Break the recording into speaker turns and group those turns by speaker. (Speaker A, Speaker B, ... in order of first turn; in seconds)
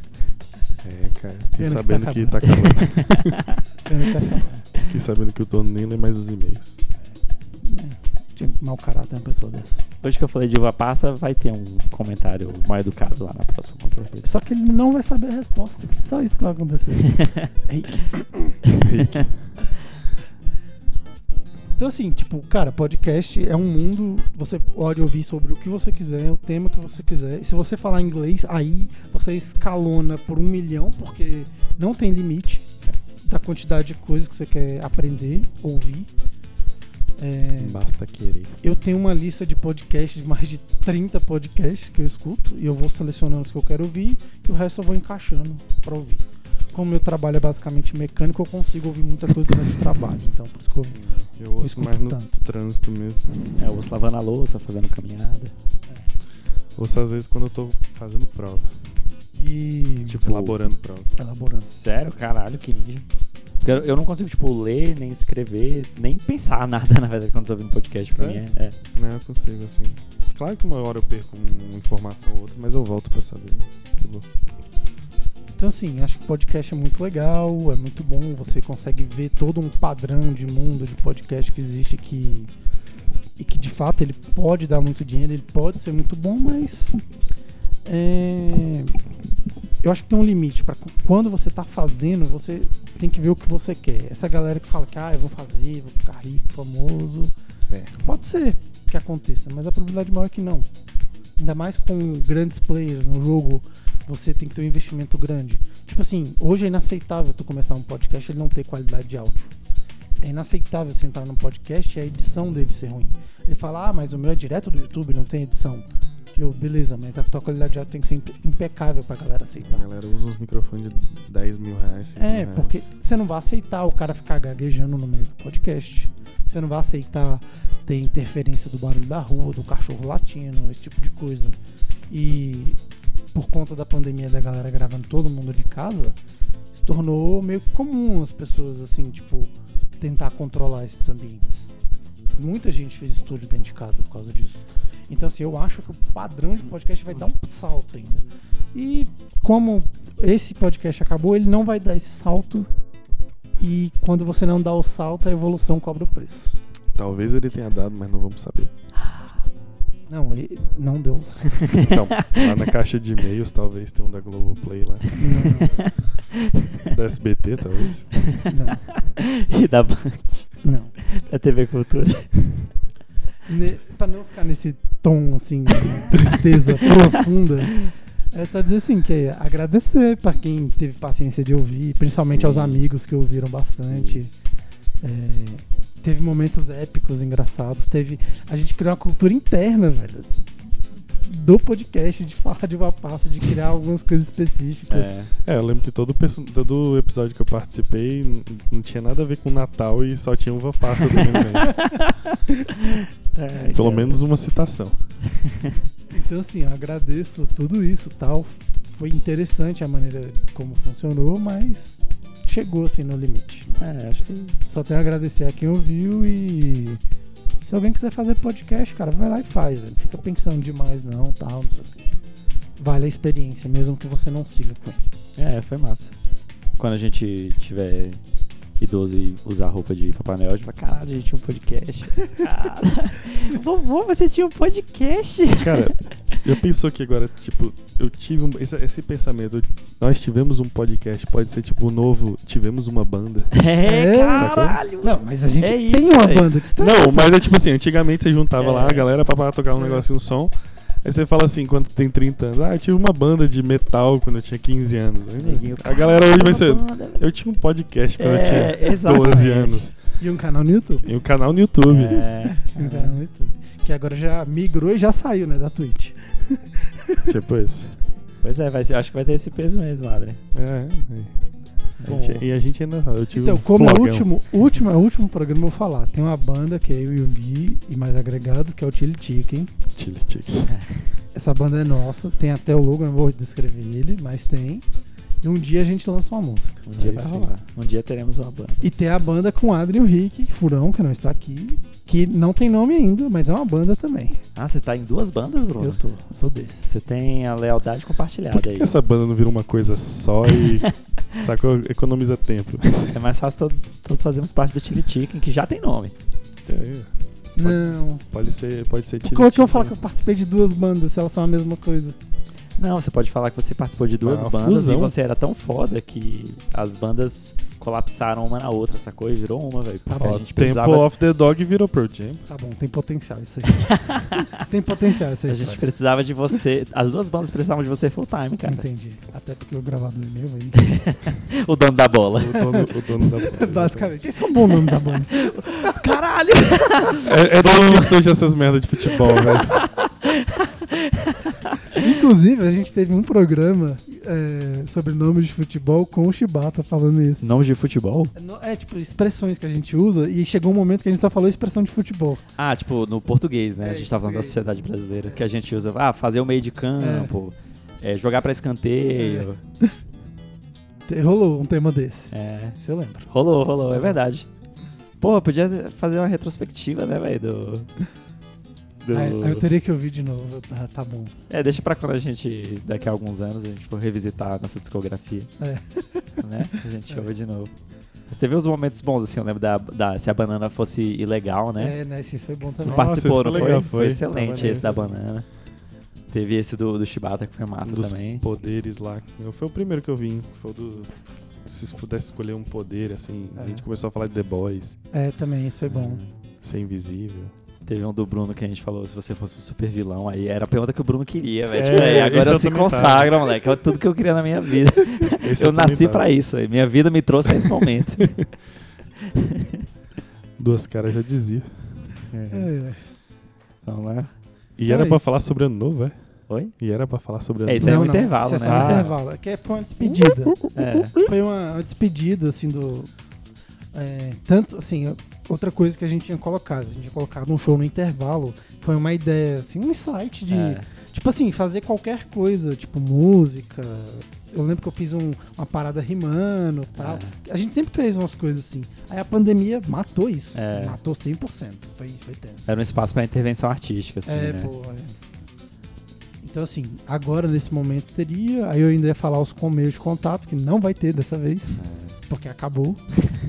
Speaker A: 0.8-3.4, 4.8-6.8, 18.8-19.5, 37.6-38.6, 50.9-53.5, 56.8-58.8, 60.1-61.1, 68.2-74.3, 97.7-98.0, 119.6-122.8, 156.9-158.7, 161.8-165.1, 166.9-168.1, 195.4-201.8, 203.7-205.0, 235.6-243.5, 244.3-244.8, 246.8-259.9, 261.0-262.3, 267.3-267.9, 270.5-271.4, 272.0-274.3, 279.9-280.7, 298.5-303.2, 306.6-309.9, 314.2-315.1, 320.2-322.4, 332.4-334.1, 337.2-339.8, 382.8-385.0, 387.8-395.0, 396.6-397.5, 401.7-403.4, 405.4-406.3, 410.6-411.9, 414.8-416.2, 416.8-418.1, 418.6-419.1
Speaker B: 1.6-2.8, 3.9-4.7, 7.6-9.8, 14.2-18.6, 21.8-36.1, 37.2-37.8, 38.6-51.0, 51.6-52.4, 59.4-60.3, 61.2-61.7, 75.6-82.5, 83.4-87.0, 87.8-89.0, 89.8-97.3, 98.0-100.7, 101.4-109.5, 110.2-119.9, 122.2-131.6, 132.1-132.8, 133.3-136.2, 136.7-141.7, 142.4-152.7, 153.6-156.6, 160.1-161.7, 165.2-165.9, 168.5-168.9, 170.6-170.9, 173.5-184.3, 185.0-190.3, 191.2-195.2, 203.6-204.0, 206.1-213.8, 214.7-217.0, 217.7-222.1, 222.8-225.1, 243.8-247.4, 249.8-250.0, 260.2-261.1, 262.6-267.4, 273.3-279.7, 281.3-284.8, 285.4-287.5, 288.8-294.4, 295.8-296.9, 307.6-308.2, 309.2-312.2, 320.1-320.4, 322.5-325.8, 328.6-330.9, 332.6-336.0, 341.9-347.5, 348.4-352.4, 353.8-354.6, 357.0-357.3, 359.1-359.9, 361.1-363.3, 363.9-364.2, 369.1-371.3, 375.6-376.4, 381.8-383.9, 384.6-384.9, 393.6-393.8, 395.1-396.2, 412.5-413.0, 414.9-415.3, 417.8-423.1, 423.9-442.8, 444.3-445.2, 446.4-453.0
Speaker C: 2.9-3.6, 10.0-14.3, 17.1-17.5, 53.6-55.5, 60.3-60.5, 61.7-63.1, 63.6-68.8, 161.6-162.4, 165.6-166.5, 168.2-172.7, 182.0-182.8, 183.9-184.2, 194.9-195.3, 201.2-204.2, 205.3-205.8, 213.8-214.6, 225.4-226.1, 226.8-228.2, 228.8-236.3, 243.5-246.5, 248.6-249.1, 255.4-257.2, 258.2-259.9, 261.9-263.2, 268.4-270.4, 272.0-272.4, 280.7-281.1, 286.9-288.9, 294.6-296.0, 296.8-298.9, 303.1-306.1, 312.8-321.1, 323.7-324.6, 325.5-328.8, 330.8-332.6, 334.7-338.1, 339.3-342.0, 347.4-348.3, 352.6-359.6, 362.3-362.8, 363.3-364.5, 365.2-367.9, 369.0-369.7, 371.5-375.5, 376.4-377.7, 378.3-381.9, 382.9-385.5, 386.3-388.4, 395.9-396.3, 397.9-408.4, 409.3-409.9, 412.3-412.7, 413.9-414.3, 416.5-416.7, 417.7-419.2, 420.7-421.2, 430.5-430.9, 437.0-437.4, 440.6-441.0, 442.7-444.7, 451.8-452.2